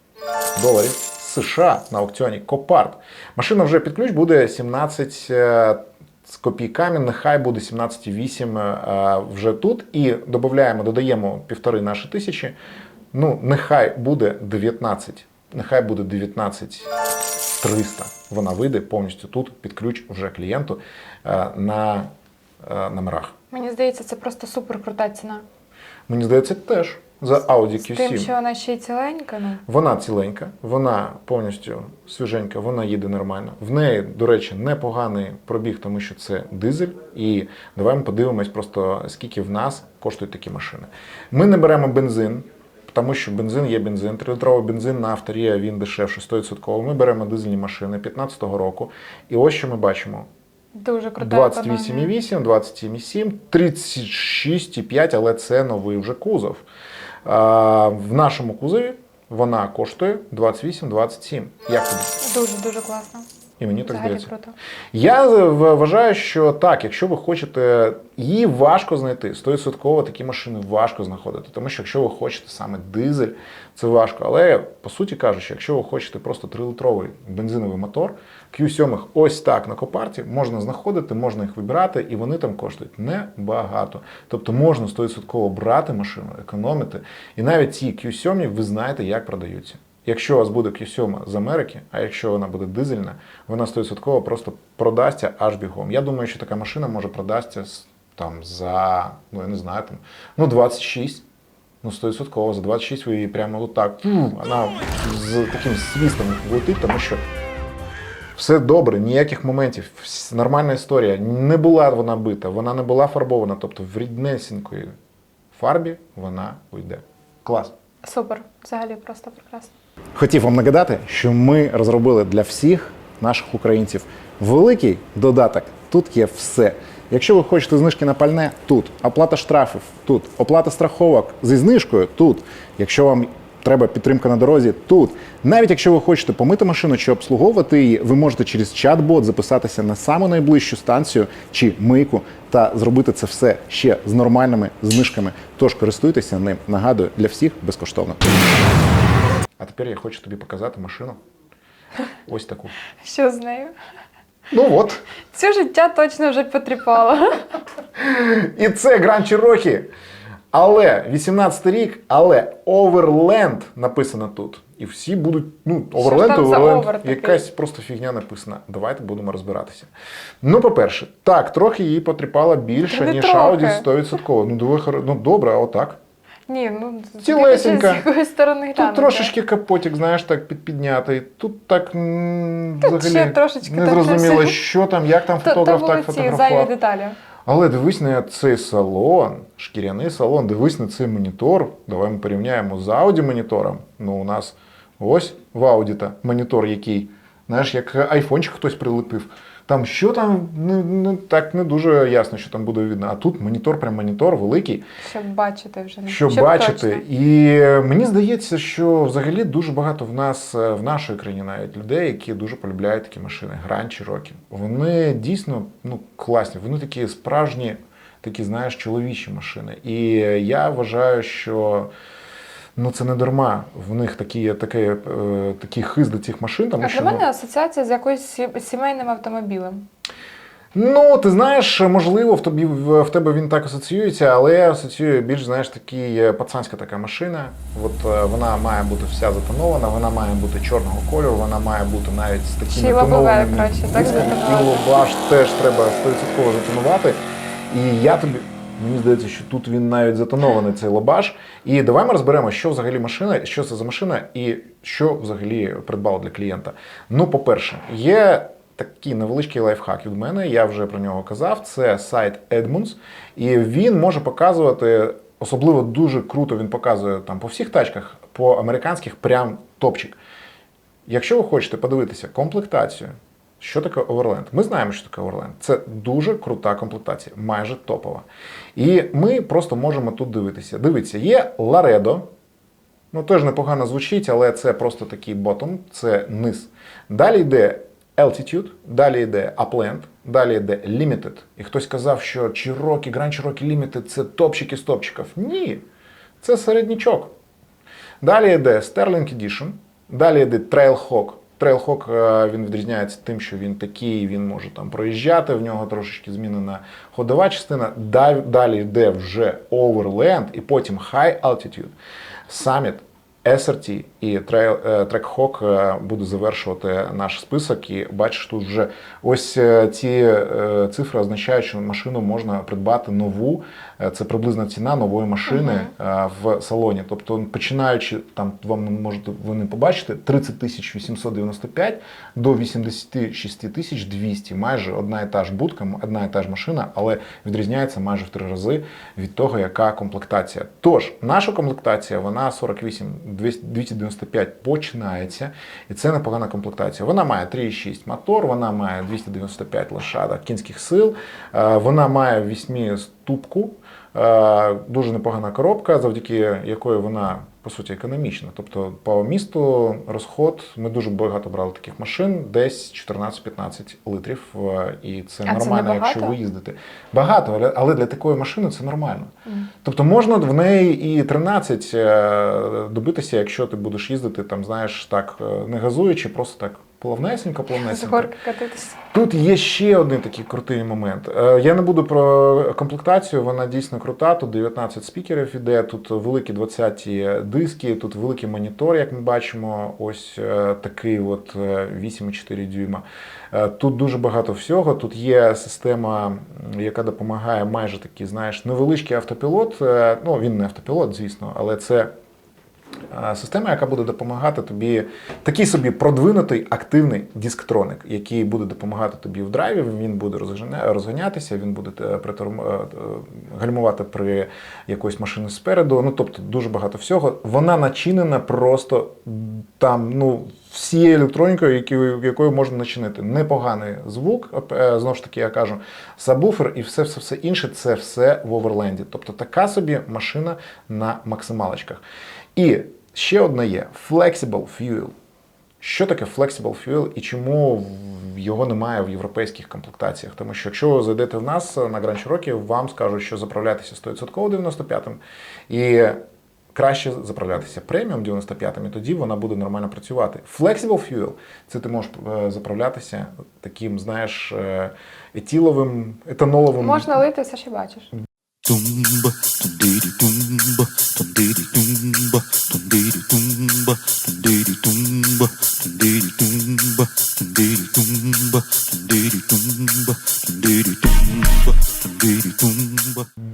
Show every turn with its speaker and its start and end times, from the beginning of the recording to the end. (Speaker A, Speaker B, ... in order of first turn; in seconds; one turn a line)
Speaker A: 0.6-12.6
Speaker A: 13.1-16.9
Speaker A: 17.6-22.1
Speaker A: 22.6-23.3
Speaker B: 23.5-25.4
Speaker A: 26.1-28.3
Speaker B: 27.8-29.6
Speaker A: 29.7-50.3
Speaker B: 50.8-52.1
Speaker A: 51.2-56.6
Speaker A: 57.2-62.2
Speaker B: 62.2-63.3
Speaker A: 63.6-64.3
Speaker B: 63.9-64.5
Speaker A: 64.9-101.2
Speaker A: 101.8-107.2
Speaker A: 108.3-114.9
Speaker A: 115.5-117.7
Speaker B: 118.0-119.7
Speaker A: 120.2-148.4
Speaker A: 149.6-151.2
Speaker A: 152.2-152.8
Speaker B: 153.0-153.7
Speaker A: 154.5-155.1
Speaker B: 155.3-157.5
Speaker A: 157.9-159.9
Speaker A: 160.5-169.9
Speaker B: 165.9-167.4
Speaker A: 170.4-176.0
Speaker B: 172.9-173.9
Speaker B: 176.5-179.3
Speaker A: 177.2-178.1
Speaker A: 178.8-186.7
Speaker B: 182.8-184.7
Speaker B: 185.4-187.2
Speaker A: 187.5-204.8
Speaker B: 205.0-207.0
Speaker A: 206.1-221.9
Speaker A: 222.8-227.2
Speaker B: 226.8-229.9
Speaker A: 230.7-270.2
Speaker B: 242.7-245.0
Speaker A: 271.1-282.3
Speaker A: 283.1-295.8
Speaker A: 296.4-297.3
Speaker A: 298.2-311.9
Speaker A: 312.5-369.3
Speaker B: 325.5-325.9
Speaker B: 365.5-366.4
Speaker A: 369.8-378.3
Speaker B: 377.7-379.0
Speaker A: 379.1-402.1
Speaker A: 403.1-432.0
Speaker A: 432.6-435.1
Speaker A: 435.8-446.2
Speaker A: 446.7-457.2
Speaker B: 456.8-458.1
Speaker C: 458.6-473.3